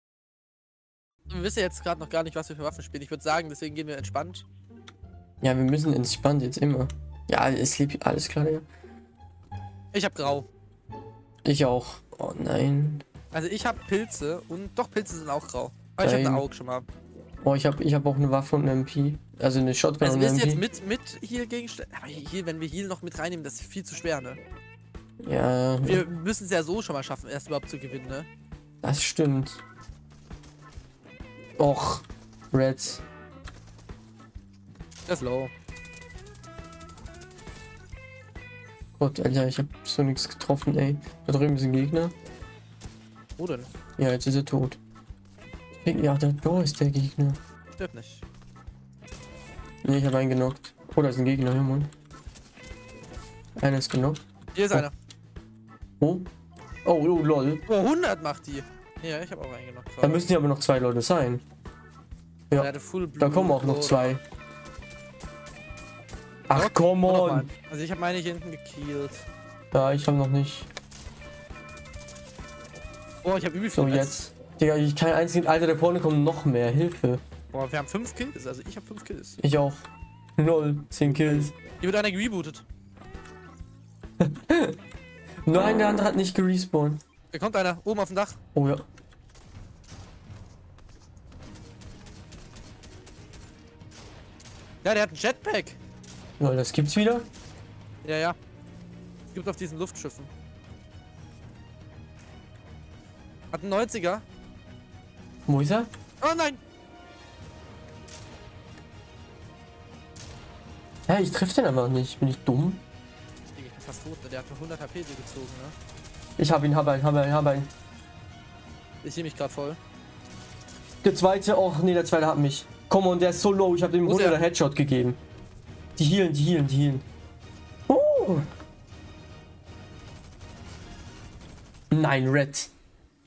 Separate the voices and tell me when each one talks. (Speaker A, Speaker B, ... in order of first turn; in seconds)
Speaker A: 1.3-4.5, 9.9-10.5, 13.3-16.9, 20.0-24.4, 25.8-28.3, 35.1-35.5, 43.4-43.7, 47.8-48.2, 54.5-54.9, 57.7-60.3, 62.5-64.2, 66.5-69.3, 73.2-74.2, 77.5-79.4, 81.0-82.6, 87.3-88.4, 94.8-95.8, 98.0-98.3, 99.3-100.3, 103.5-104.2, 106.2-106.6, 113.5-115.8, 119.0-119.8, 124.0-124.4
Speaker B: 5.4-8.6, 11.4-13.0, 16.0-16.5, 17.4-20.6, 25.2-26.1, 28.8-29.6, 31.6-33.0, 39.0-42.1, 44.0-44.8, 45.8-47.4, 49.8-51.9, 53.6-54.2, 56.0-56.3, 56.8-57.6, 60.0-61.4, 62.5-64.2, 66.5-67.5, 69.7-70.7, 73.7-77.2, 79.4-79.8, 80.4-81.5, 84.2-84.8, 85.4-87.0, 88.5-88.8, 96.4-97.3, 105.5-105.9, 111.1-112.8, 116.4-117.7, 121.0-125.2, 126.0-127.0, 127.9-128.5, 131.9-132.7